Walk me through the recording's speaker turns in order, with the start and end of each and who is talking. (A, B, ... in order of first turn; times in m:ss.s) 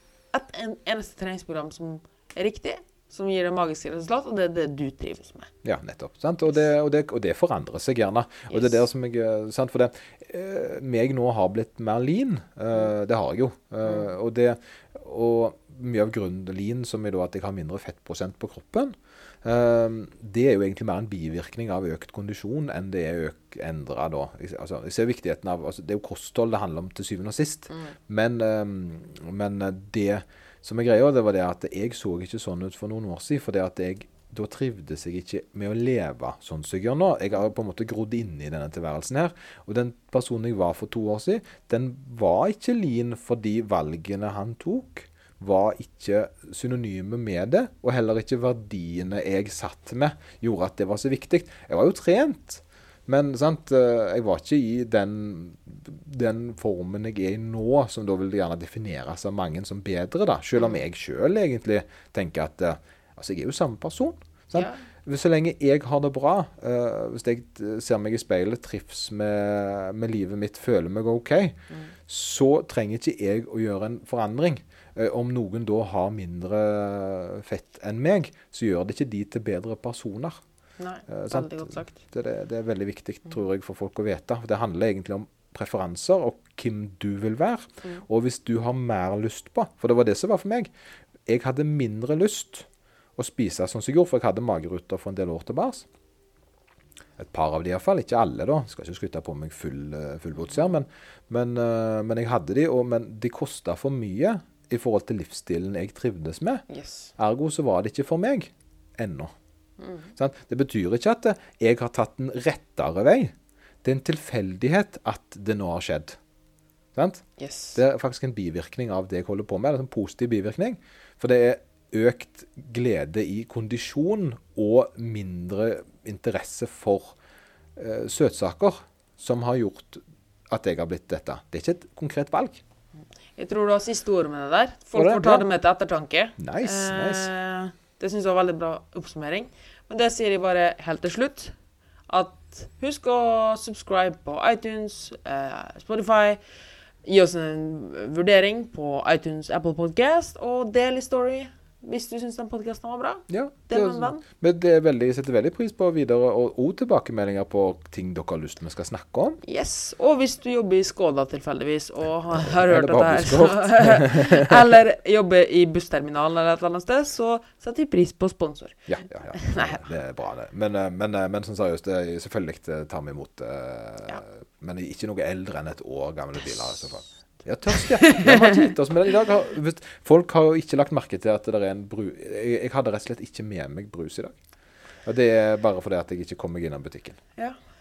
0:00.3-0:05.5 A
0:05.6-1:20.4 B
0:08.5-0:08.8 A
1:04.5-1:04.9 A
1:20.8-1:22.0 A
1:21.1-1:30.7 B
1:31.3-1:32.7 B
1:33.2-1:35.9 B
1:37.2-1:46.6 B
1:46.7-1:47.1 A
1:47.2-1:49.3 B
1:49.8-1:50.1 A
1:50.2-1:56.2 B
1:57.0-1:57.2 B
1:57.4-1:57.8 A
1:57.8-2:07.2 B
2:07.8-2:12.6 B
2:13.4-2:21.5 A
2:14.9-2:15.5 B
2:16.4-2:17.3 B
2:22.1-2:26.4 A
2:27.0-2:34.2 A
2:33.3-2:39.4 B
2:39.4-2:48.8 A
2:42.3-2:44.6 B
2:48.9-3:04.4 B
2:49.3-2:49.8 A
2:58.0-2:58.7 A
3:05.1-3:07.2 B